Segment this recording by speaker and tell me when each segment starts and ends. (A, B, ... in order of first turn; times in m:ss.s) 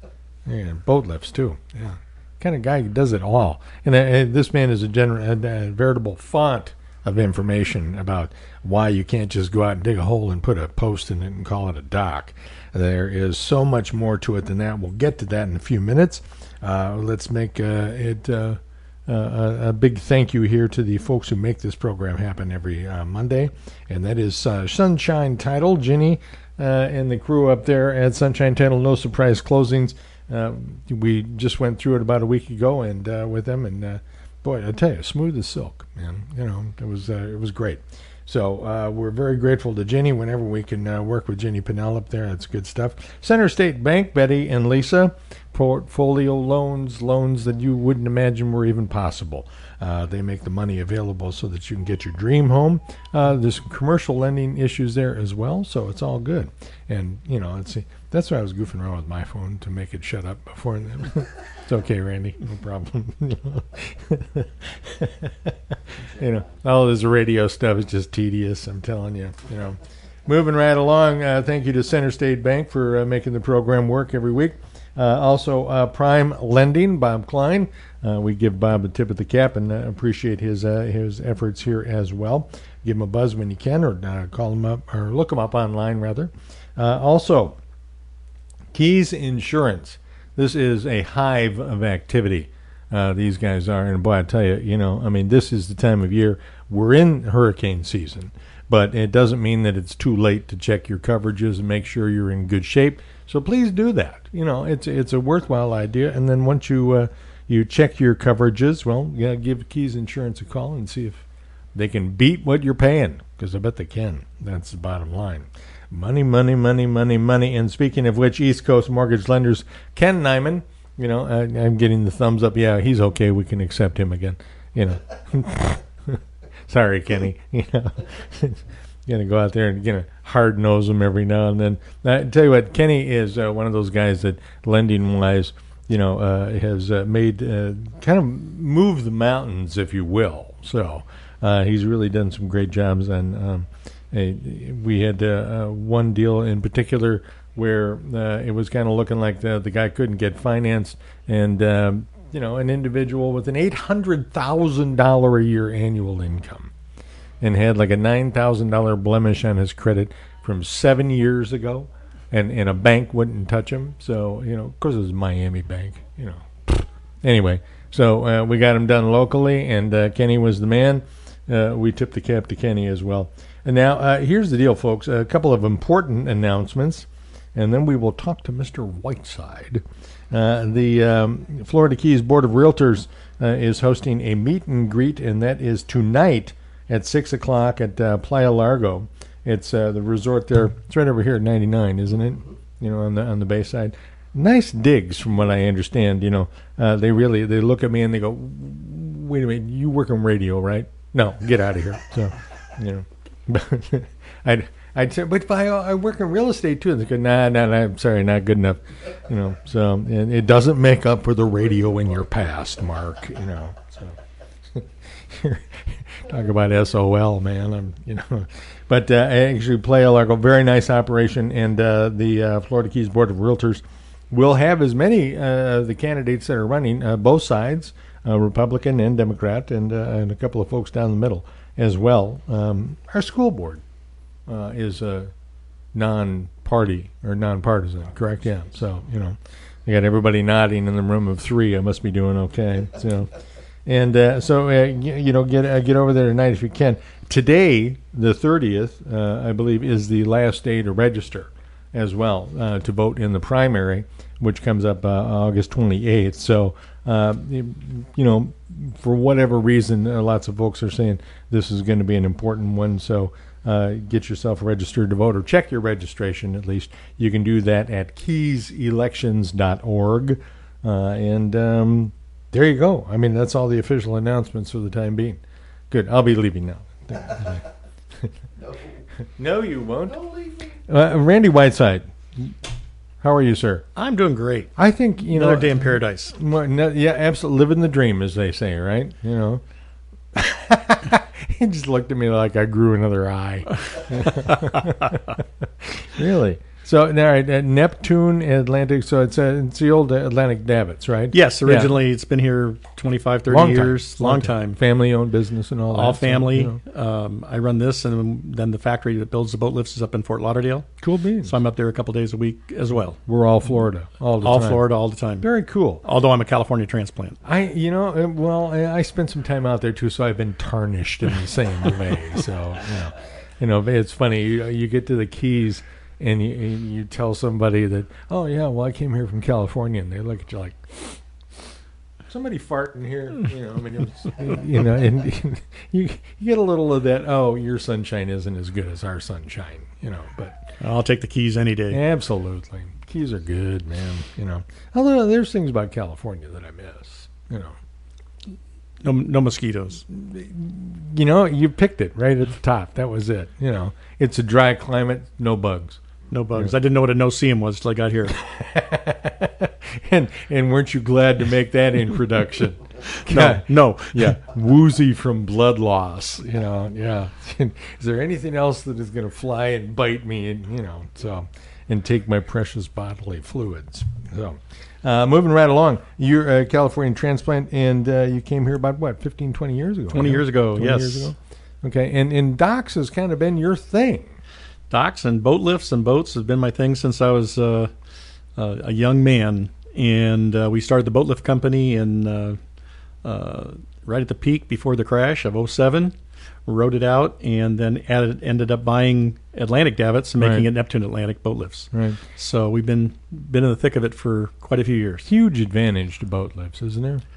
0:00.4-1:27.6 A
1:28.7-1:51.2 A
1:51.7-2:36.7 A
2:37.4-3:34.2 A
3:34.7-3:53.8 A
3:54.5-3:55.3 A
3:55.9-4:03.3 A
4:03.8-4:37.6 A
4:39.2-4:42.5 A
4:43.2-4:43.8 A
4:44.0-4:44.7 B
4:44.8-4:49.6 A
4:45.3-4:46.3 B
4:50.3-5:02.0 A
4:53.9-4:55.3 B
5:01.3-5:04.8 B
5:03.5-5:06.8 A
5:05.9-5:10.9 B
5:11.0-5:11.5 A
5:11.4-5:13.2 B
5:13.2-5:14.9 A
5:14.4-5:15.5 B
5:15.4-5:16.0 A
5:16.0-5:17.4 B
5:17.4-5:31.2 A
5:32.3-5:40.7 A
5:40.8-5:42.0 B
5:41.9-5:47.7 A
5:49.0-5:50.0 B
5:50.1-5:56.0 A
5:56.3-5:58.4 B
5:58.3-6:24.4 A
6:03.2-6:04.4 B
6:20.1-6:21.3 B
6:24.9-6:27.9 B
6:28.6-6:32.6 B
6:33.2-6:36.1 B
6:36.6-6:45.3 B
6:40.4-6:40.7 A
6:41.9-6:42.2 A
6:45.2-6:47.2 A